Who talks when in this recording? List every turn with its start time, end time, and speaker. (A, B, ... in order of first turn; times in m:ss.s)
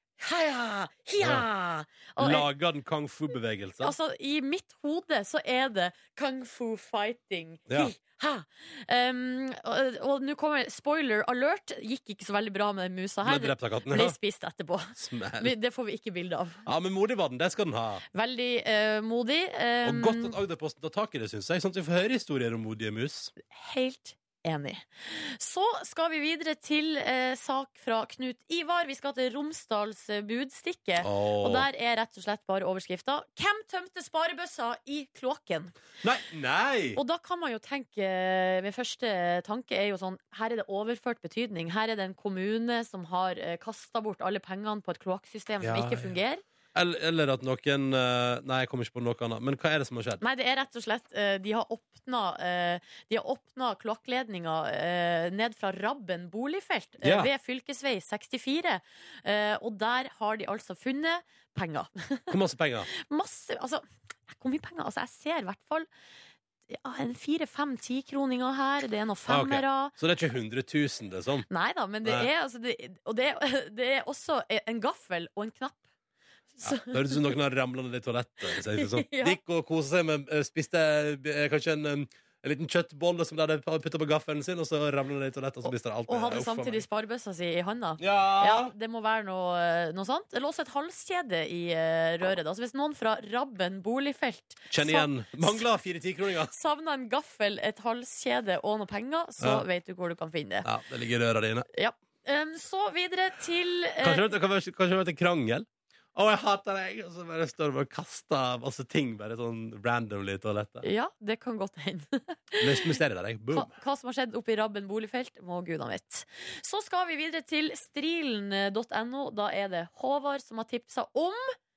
0:00.2-0:02.5 A
0:01.2-0:01.4 B
0:02.2-0:04.0 B
0:03.8-0:16.6 A
0:13.2-0:14.2 B
0:14.9-0:15.5 B
0:16.6-0:18.0 B
0:18.1-0:20.4 A
0:19.8-0:23.3 B
0:23.4-0:35.7 A
0:31.0-0:31.7 B
0:36.0-0:37.0 B
0:36.9-0:46.4 A
0:45.6-0:46.2 B
0:46.7-0:50.2 B
0:50.2-1:02.3 A
0:57.0-0:57.3 B
1:02.3-1:02.9 B
1:02.9-1:05.9 A
1:06.7-1:09.9 A
1:09.3-1:11.5 B
1:11.5-1:15.8 A
1:12.0-1:12.3 B
1:16.6-1:17.2 A
1:16.6-1:26.8 B
1:18.5-1:19.4 A
1:25.6-1:35.6 A
1:28.0-1:28.7 B
1:34.7-1:36.5 B
1:36.5-1:40.7 A
1:39.4-1:39.6 B
1:40.6-1:41.6 B
1:41.7-1:44.3 A
1:44.0-1:50.9 B
1:50.8-1:53.0 A
1:52.6-1:53.7 B
1:53.5-2:01.5 A